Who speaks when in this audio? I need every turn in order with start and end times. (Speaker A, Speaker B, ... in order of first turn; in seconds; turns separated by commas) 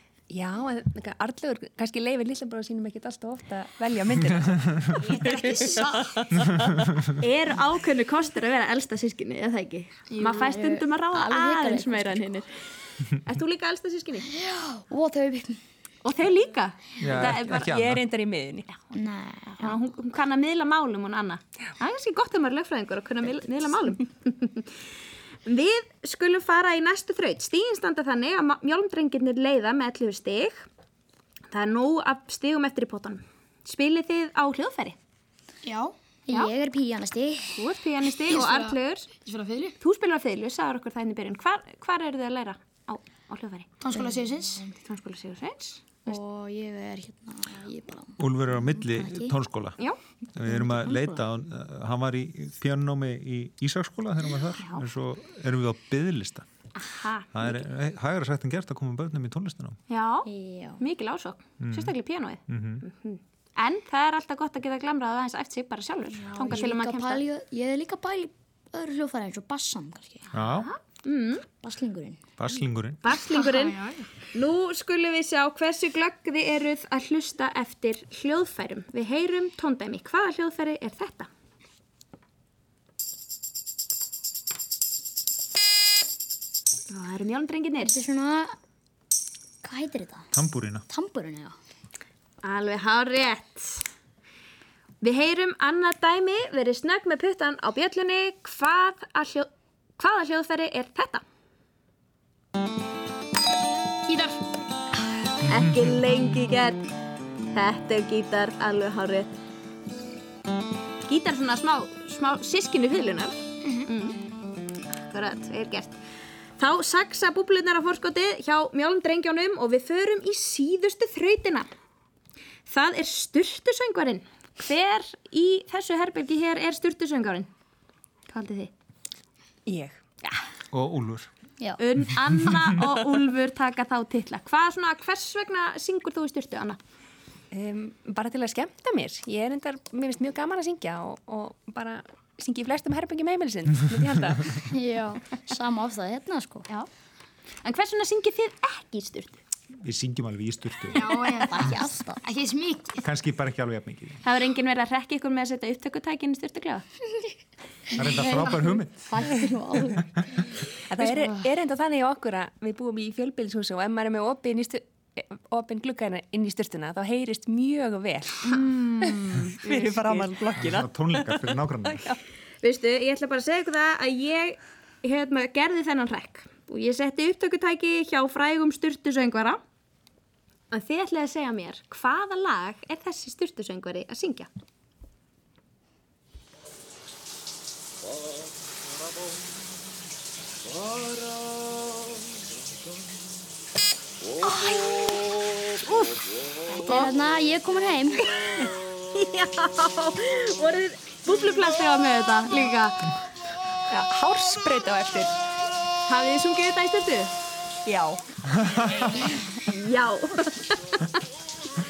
Speaker A: 0.3-6.7, Speaker B: 7.2-12.5, Speaker C: 10.1-12.2, Speaker B: 13.1-14.3, Speaker C: 14.3-15.6, Speaker B: 16.0-17.7, Speaker D: 17.0-18.0, Speaker A: 17.1-18.7, Speaker C: 18.9-19.8, Speaker B: 19.6-24.7, Speaker B: 25.4-30.6, Speaker B: 31.5-35.0, Speaker E: 35.6-35.9, Speaker C: 36.3-37.6, Speaker B: 37.5-39.1, Speaker E: 38.2-39.7, Speaker B: 39.8-43.7, Speaker E: 43.8-44.6, Speaker C: 43.9-44.6, Speaker B: 44.8-46.2, Speaker C: 46.1-49.3, Speaker D: 48.2-49.8, Speaker D: 50.3-56.5, Speaker C: 50.5-51.2, Speaker B: 54.5-54.9, Speaker B: 56.8-57.6, Speaker D: 57.3-59.8, Speaker B: 59.9-67.2, Speaker C: 60.2-60.8, Speaker D: 61.6-62.0, Speaker D: 62.5-62.9, Speaker C: 66.1-70.3, Speaker D: 70.3-70.7, Speaker B: 70.6-71.4, Speaker C: 71.6-72.4, Speaker D: 72.4-73.0, Speaker B: 73.0-81.3, Speaker E: 73.3-74.0, Speaker B: 86.9-88.0, Speaker C: 87.8-88.5, Speaker C: 89.6-90.3, Speaker D: 90.3-90.8, Speaker C: 90.9-91.5, Speaker B: 92.4-93.8, Speaker B: 95.0-101.2, Speaker E: 104.1-104.4, Speaker B: 105.4-106.9, Speaker B: 107.5-109.4, Speaker B: 111.0-114.2, Speaker B: 114.9-116.0, Speaker B: 116.6-121.7, Speaker B: 122.7-127.5, Speaker B: 128.3-128.7, Speaker A: 129.7-129.9, Speaker D: 130.7-131.3, Speaker B: 131.8-136.8, Speaker A: 137.5-144.6, Speaker C: 144.7-146.7, Speaker B: 147.6-149.4, Speaker D: 149.8-151.8, Speaker E: 150.9-151.6, Speaker C: 151.5-152.2, Speaker E: 152.2-153.0, Speaker D: 153.0-154.2, Speaker B: 154.2-156.8, Speaker D: 157.9-159.2, Speaker C: 158.0-160.5, Speaker A: 160.9-172.2, Speaker B: 168.5-170.3, Speaker D: 170.5-172.1, Speaker B: 172.6-179.6, Speaker B: 180.7-184.5, Speaker C: 194.4-194.9, Speaker C: 196.8-198.3, Speaker B: 199.1-203.1, Speaker A: 203.9-205.3, Speaker B: 206.0-207.3, Speaker A: 207.8-208.2, Speaker B: 209.5-211.2